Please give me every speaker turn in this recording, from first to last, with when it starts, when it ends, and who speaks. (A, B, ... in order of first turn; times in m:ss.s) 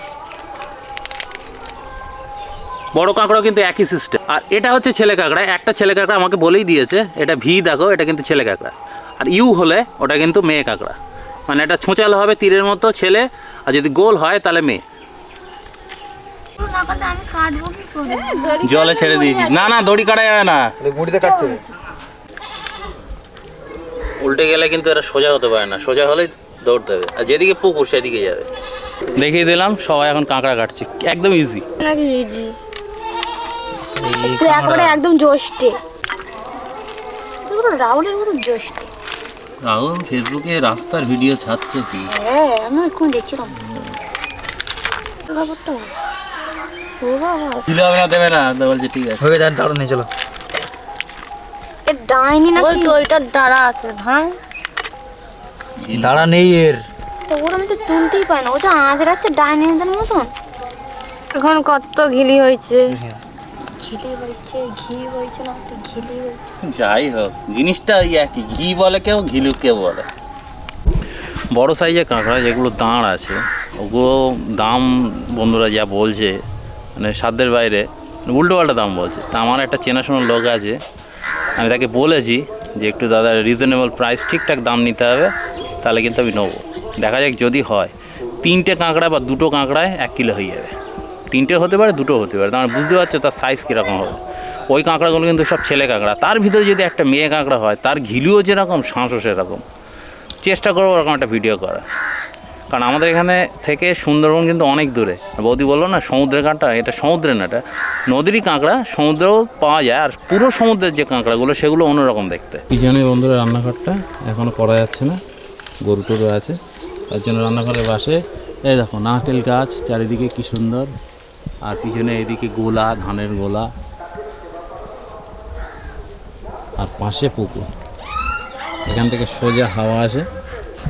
0:02.9-0:11.0 A
0:11.5-0:14.8 A
0:16.6-0:18.6 B
0:18.0-0:19.8 C
0:18.6-0:20.7 A
0:20.8-0:21.6 D
0:24.2-0:28.5 A
0:29.2-0:31.6 A
0:31.8-0:32.5 C
0:34.0-0:35.0 D
0:34.2-0:35.8 B
0:37.4-0:38.9 B
0:39.6-0:42.1 A
0:42.1-0:43.5 B
0:45.3-0:45.9 B
0:47.0-0:47.6 B
0:47.7-0:49.3 A
0:49.2-0:50.1 D
0:51.8-0:53.0 B
0:52.5-0:54.4 C
0:55.8-0:56.3 A
0:55.9-0:56.8 D
0:57.3-1:00.3 B
1:01.3-1:03.0 C
1:02.9-1:03.2 D
1:03.8-1:06.4 B
1:06.6-1:10.1 A
1:11.5-1:16.4 A
1:17.0-1:20.8 A
1:21.6-1:30.7 A
1:31.3-1:39.6 A
1:40.4-1:41.8 A
1:42.7-1:55.2 A
1:55.8-1:56.6 A
1:57.1-2:00.9 A
2:01.6-2:03.7 A
2:06.8-2:07.7 A
2:08.8-2:10.3 A